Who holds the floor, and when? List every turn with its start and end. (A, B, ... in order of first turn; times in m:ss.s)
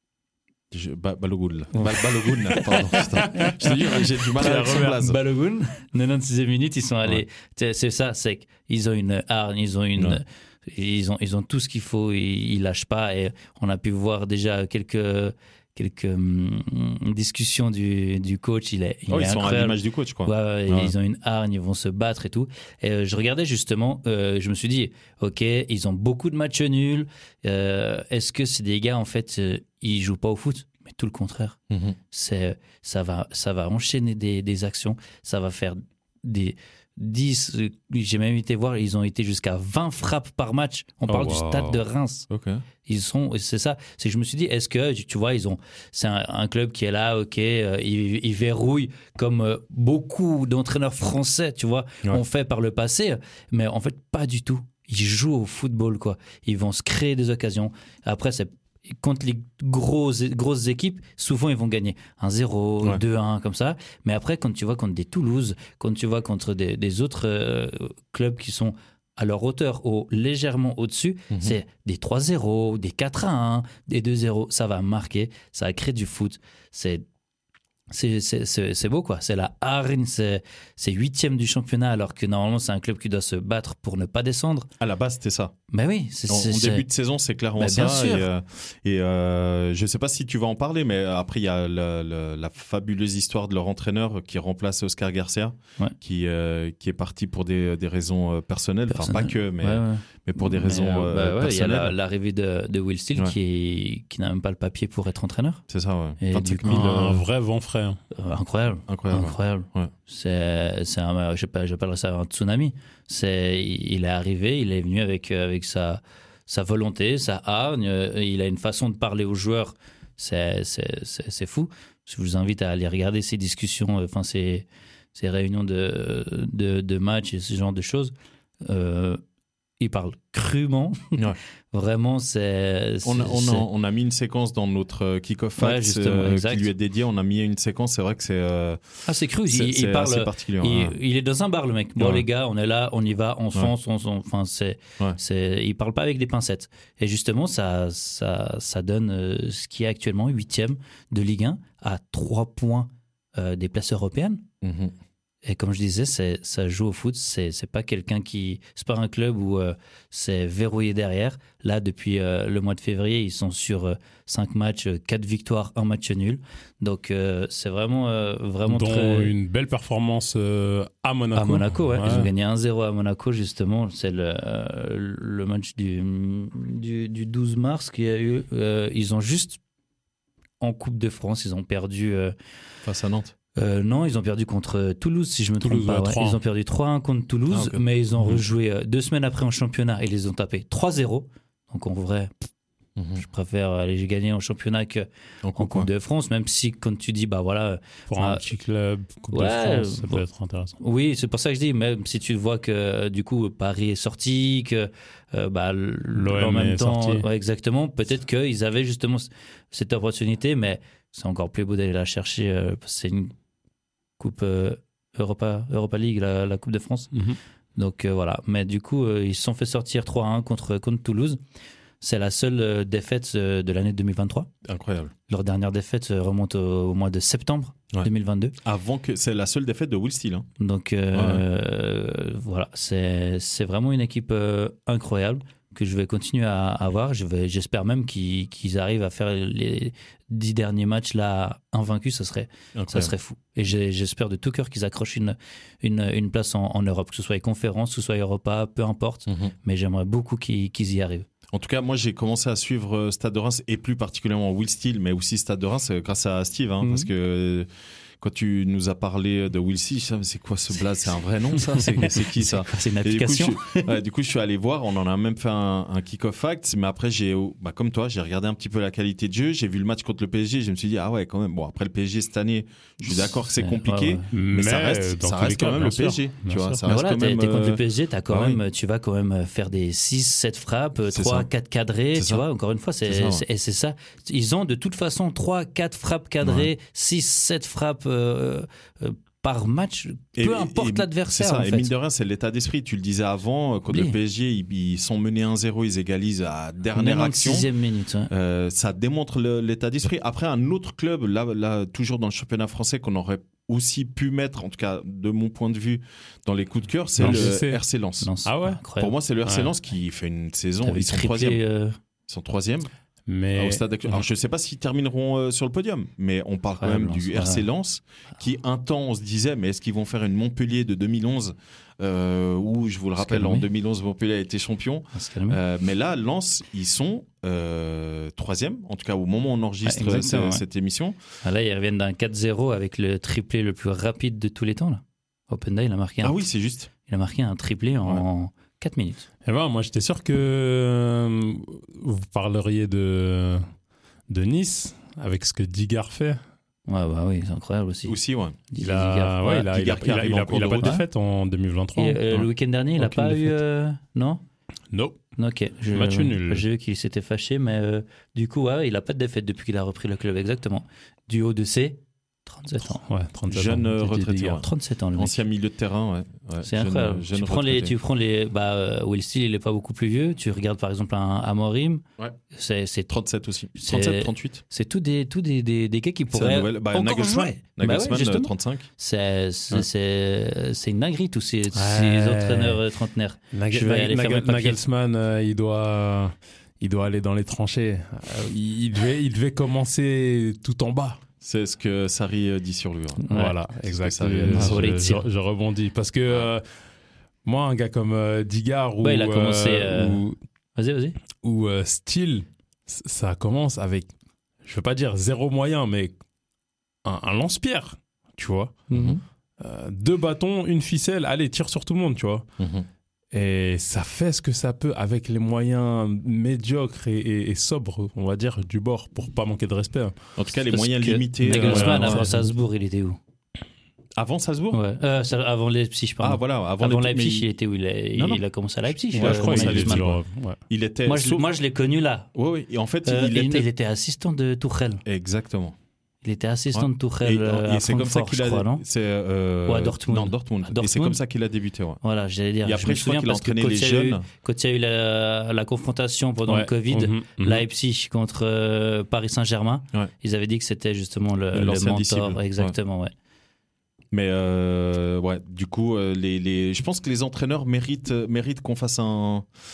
0:00.7-0:05.2 A
0:01.7-0:03.6 B
0:03.4-0:05.0 C
0:04.3-0:31.6 B
0:10.0-0:10.2 A
0:19.1-0:20.9 A
0:31.7-0:32.0 A
0:32.1-0:42.3 B
0:41.1-0:41.4 C
0:41.2-0:42.6 A
0:42.8-1:17.0 B
1:11.3-1:11.6 A
1:17.9-1:24.7 B
1:24.8-1:25.5 A
1:25.7-1:26.9 B
1:26.3-1:41.9 A
1:27.6-1:28.3 B
1:38.9-1:45.6 B
1:45.7-1:47.2 A
1:46.2-1:47.2 B
1:46.7-1:48.0 C
1:48.1-2:09.2 B
1:48.9-1:49.9 A
2:09.8-2:13.6 B
2:13.0-2:21.0 A
2:15.6-2:16.7 B
2:19.0-2:34.4 B
2:22.0-2:22.2 A
2:34.6-2:34.9 A
2:35.4-2:49.3 B
2:48.7-2:52.3 C
2:51.3-2:59.6 B
3:00.6-3:02.3 B
3:02.8-3:03.3 A
3:03.6-3:12.3 B
3:05.6-3:06.4 C
3:07.5-3:07.8 A
3:13.0-3:13.2 A
3:13.2-3:18.4 B
3:15.4-3:15.9 A
3:18.1-3:20.8 C
3:19.3-3:20.2 B
3:20.8-3:33.3 B
3:26.1-3:27.2 C
3:34.2-3:37.1 B
3:37.1-3:37.4 C
3:37.8-3:41.4 B
3:42.0-3:44.5 B
3:44.6-3:45.1 A
3:45.3-3:48.5 B
3:48.6-3:50.5 A
3:50.6-4:11.3 B
3:51.1-3:51.4 A
4:02.7-4:03.1 A
4:09.3-4:09.5 A
4:11.5-4:17.7 A
4:16.8-4:17.1 B
4:18.2-4:38.6 A
4:21.7-4:23.9 B
4:33.0-4:34.2 B
4:34.3-4:36.8 C
4:36.8-4:51.9 B
4:41.1-4:41.5 A
4:42.1-4:42.4 A
4:43.0-4:43.4 A
4:46.4-4:46.7 A
4:50.3-4:57.7 A
4:53.9-4:54.2 B
4:56.9-4:58.3 B
4:58.3-5:08.3 A
5:07.2-5:07.8 C
5:07.2-5:07.6 B
5:08.2-5:09.1 B
5:08.4-5:08.8 C
5:09.0-5:11.6 A
5:09.4-5:09.7 C
5:10.8-5:12.0 B
5:12.3-5:12.9 A
5:13.3-5:14.2 C
5:13.5-5:31.2 A
5:16.8-5:17.6 B
5:23.2-5:23.7 B
5:25.1-5:25.6 B
5:29.8-5:30.6 B
5:31.4-5:36.4 B
5:36.2-5:36.9 A
5:37.0-5:39.3 B
5:39.4-5:43.7 C
5:44.3-5:46.4 C
5:46.9-5:48.2 B
5:48.0-5:48.6 A
5:48.7-5:49.7 B
5:48.8-5:53.6 C
5:49.5-5:50.9 A
5:50.7-5:51.0 B
5:52.0-5:54.4 B
5:54.9-5:55.2 C
5:55.4-6:03.0 B
5:55.9-5:56.6 C
6:02.8-6:04.6 C
6:03.5-6:07.9 A
6:04.0-6:05.4 B
6:06.6-6:13.1 B
6:13.1-6:14.6 A
6:13.7-6:24.8 B
6:16.3-6:18.9 A
6:21.7-6:22.8 C
6:23.5-6:31.2 C
6:31.4-6:34.9 A
6:33.2-6:33.6 B
6:33.3-6:36.6 C
6:34.5-6:35.2 B
6:37.4-6:40.4 C
6:39.0-6:40.2 B
6:40.7-6:41.2 B
6:41.4-6:44.1 C
6:44.6-6:46.1 C
6:47.0-6:48.8 C
6:48.9-6:49.2 B
6:48.9-6:49.2 A
6:49.6-6:52.4 C
6:52.6-6:52.9 A
6:53.3-7:00.2 C
7:00.4-7:02.3 A
7:00.7-7:03.2 B
7:01.4-7:02.5 C
7:04.2-7:04.8 A
7:04.7-7:10.1 B
7:06.2-7:07.5 A
7:08.1-7:08.4 A
7:09.0-7:11.4 A
7:09.2-7:10.6 C
7:11.0-7:12.3 B
7:12.3-7:13.7 A
7:13.0-7:15.0 B
7:15.0-7:15.8 A
7:16.2-7:18.8 B
7:16.7-7:22.0 A
7:19.7-7:21.2 B
7:22.0-7:33.1 B
7:22.6-7:24.2 A
7:26.5-7:27.6 C
7:31.5-7:32.7 A
7:34.1-7:39.5 A